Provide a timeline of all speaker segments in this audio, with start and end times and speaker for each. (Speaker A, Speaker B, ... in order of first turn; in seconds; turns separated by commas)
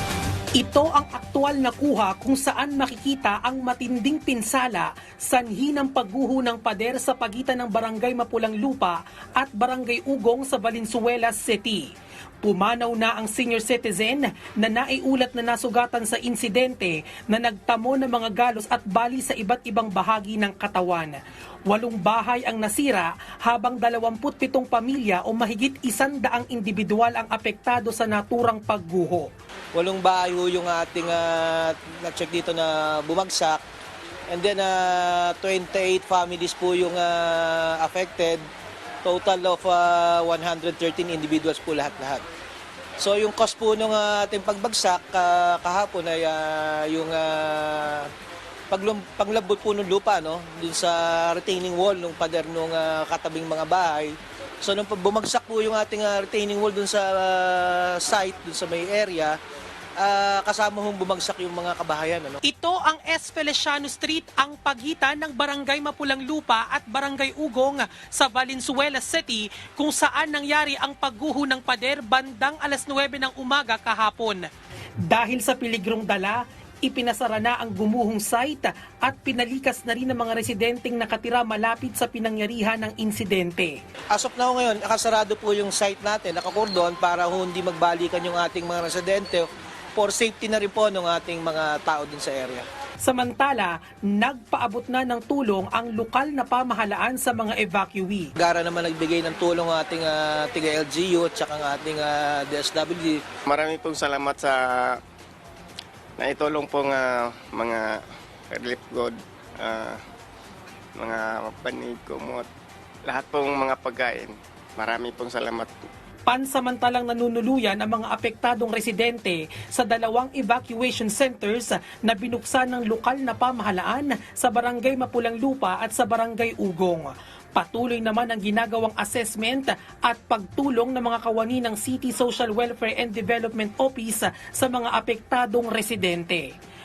Speaker A: 0.6-11.9, Speaker A: 12.4-29.3, Speaker B: 29.7-33.6, Speaker B: 34.3-38.4, Speaker B: 39.0-42.2, Speaker B: 43.0-48.1, Speaker B: 48.7-59.4, Speaker B: 60.0-62.4, Speaker A: 62.4-74.5, Speaker A: 75.0-83.8, Speaker B: 84.1-92.7, Speaker A: 93.0-98.3, Speaker B: 98.3-103.2, Speaker C: 103.5-105.0, Speaker C: 106.2-108.0, Speaker C: 108.5-110.0, Speaker C: 111.0-112.5, Speaker C: 113.0-115.9, Speaker A: 116.3-136.5